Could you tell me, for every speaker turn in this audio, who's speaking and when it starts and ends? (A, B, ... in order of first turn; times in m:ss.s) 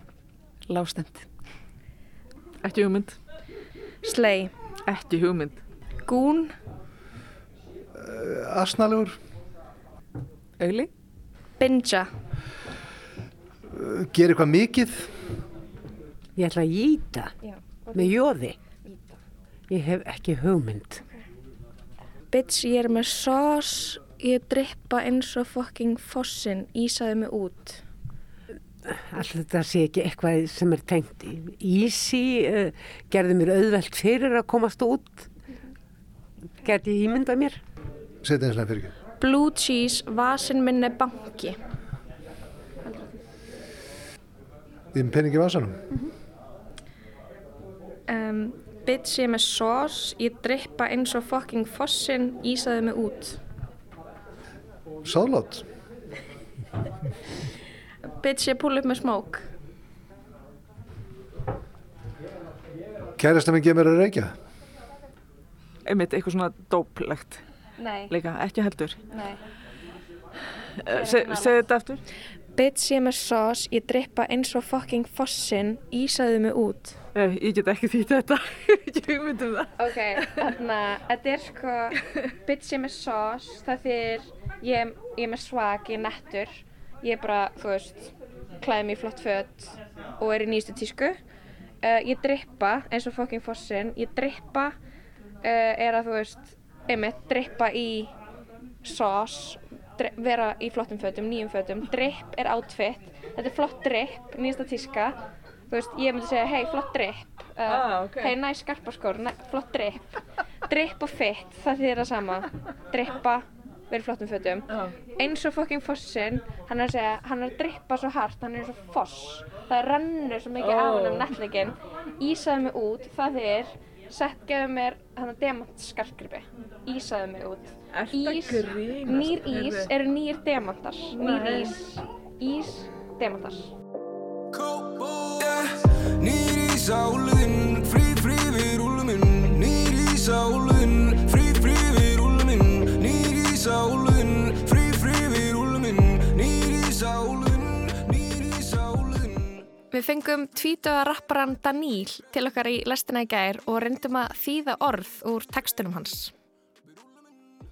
0:00.7-0:01.2 A
0:02.6-0:03.2 A
0:04.0-0:04.5 B
0:04.9-0:05.6 A
0:06.1-0:06.5 B
0:08.0-0:09.2 C
0:10.6-0:10.9 A
0:11.6-0:12.1 B
0:13.7-0:15.3 C
0:16.4-0:17.3 D
0:17.4-0:18.1 B
0:17.9-0:18.6 D
0:19.7-0:21.0 D
0:22.3-0:27.8 B
0:28.9-0:35.3 D
0:36.6-0:37.6 D
0:38.2-0:38.9 C
0:39.2-0:41.6 B
0:42.8-0:43.2 B
0:44.9-0:45.8 C
0:48.1-0:53.4 B
0:55.0-0:55.6 C
0:58.0-0:59.5 B
1:03.2-1:04.3 C
1:05.8-1:07.4 A
1:07.8-1:08.1 B
1:08.1-1:09.0 A
1:09.1-1:09.4 B
1:10.8-1:12.0 A
1:10.9-1:11.7 B
1:12.6-1:17.0 B
1:17.1-1:20.4 A
1:19.8-1:31.2 B
1:31.8-1:34.8 B
1:35.4-1:38.1 B
1:38.8-1:45.2 B
1:45.7-1:50.2 B
1:47.7-1:48.3 A
1:50.7-2:13.7 B
2:00.6-2:01.3 A
2:07.9-2:09.9 A
2:11.2-2:11.8 A
2:14.6-2:15.7 E
2:16.2-2:29.6 E
2:29.9-2:36.3 B